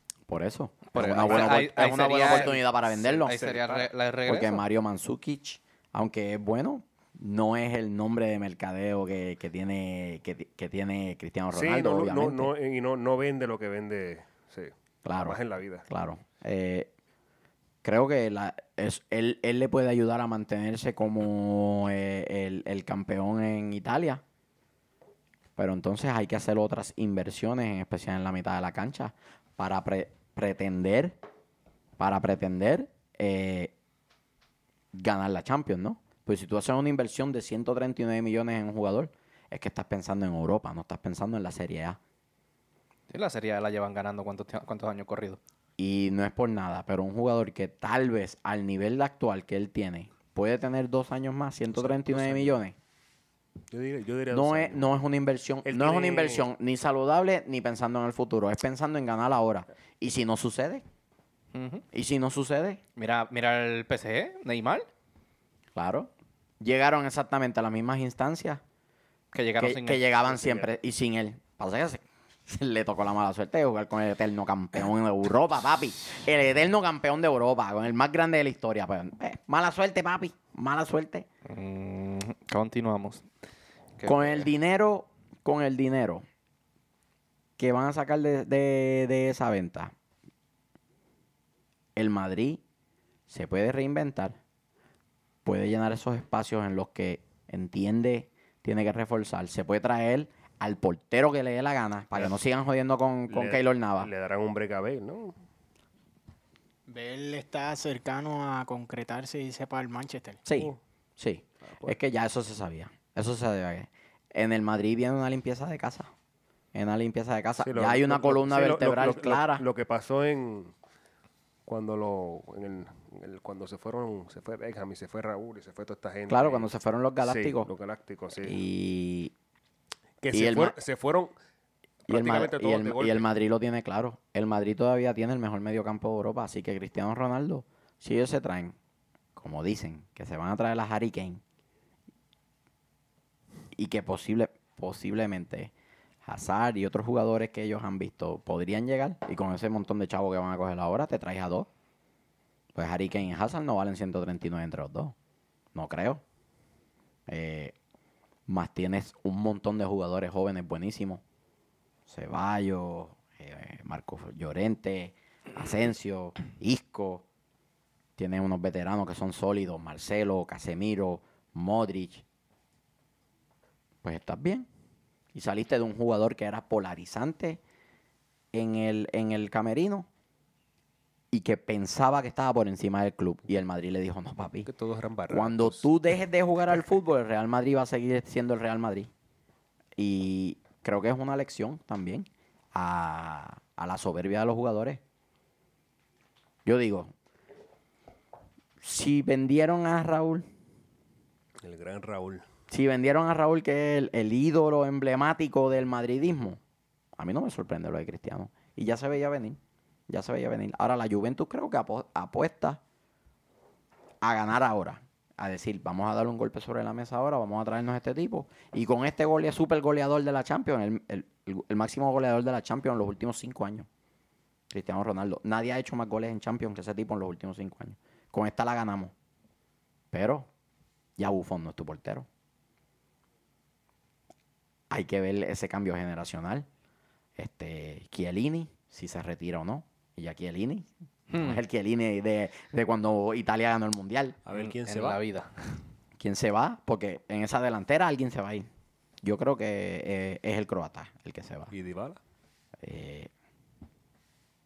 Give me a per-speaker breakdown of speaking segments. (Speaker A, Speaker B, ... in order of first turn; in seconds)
Speaker A: 0.3-3.4, 4.2-12.5, 15.0-16.9, 17.8-24.2, 25.6-31.2, 32.0-33.7, 34.9-42.0, 45.8-52.7, 54.3-60.8, 61.9-62.8, 65.7-68.6, 69.6-81.3, 84.0-86.2, 87.6-89.9, 92.0-92.6, 93.3-94.4, 95.4-104.1, 110.5-116.1, 116.7-119.6, 126.3-127.7, 128.4-129.3, 130.3-130.7, 132.1-138.8, 139.3-141.4, 143.7-145.7, 146.2-151.7, 152.7-155.1, 155.7-156.2, 157.3-157.7, 158.5-161.2, 162.1-167.2, 168.2-172.2, 174.0-174.7, 175.3-177.6, 178.5-180.1, 181.3-184.7, 185.3-189.1, 190.0-195.0, 196.6-197.1, 198.8-200.5, 202.7-206.6, 207.2-212.8, 214.2-223.9, 224.7-229.1, 230.1-230.5, 231.2-232.2, 234.9-236.7, 237.4-244.4, 246.2-248.7, 249.2-251.7, 252.8-253.3
Speaker B: 0.9-4.6, 43.1-45.4, 61.5-61.8, 63.0-64.9, 69.3-70.2, 81.5-83.2, 84.0-84.5, 241.3-241.6, 244.5-245.5
Speaker C: 1.0-3.9, 11.5-15.8, 51.7-52.6, 53.7-55.0, 55.6-56.5, 103.3-105.3, 111.7-112.0, 117.6-120.7, 121.7-126.7, 127.2-128.6, 130.2-131.3, 132.1-133.3, 184.6-185.9, 201.6-202.4, 244.4-245.2, 251.7-252.2
Speaker D: 106.9-110.4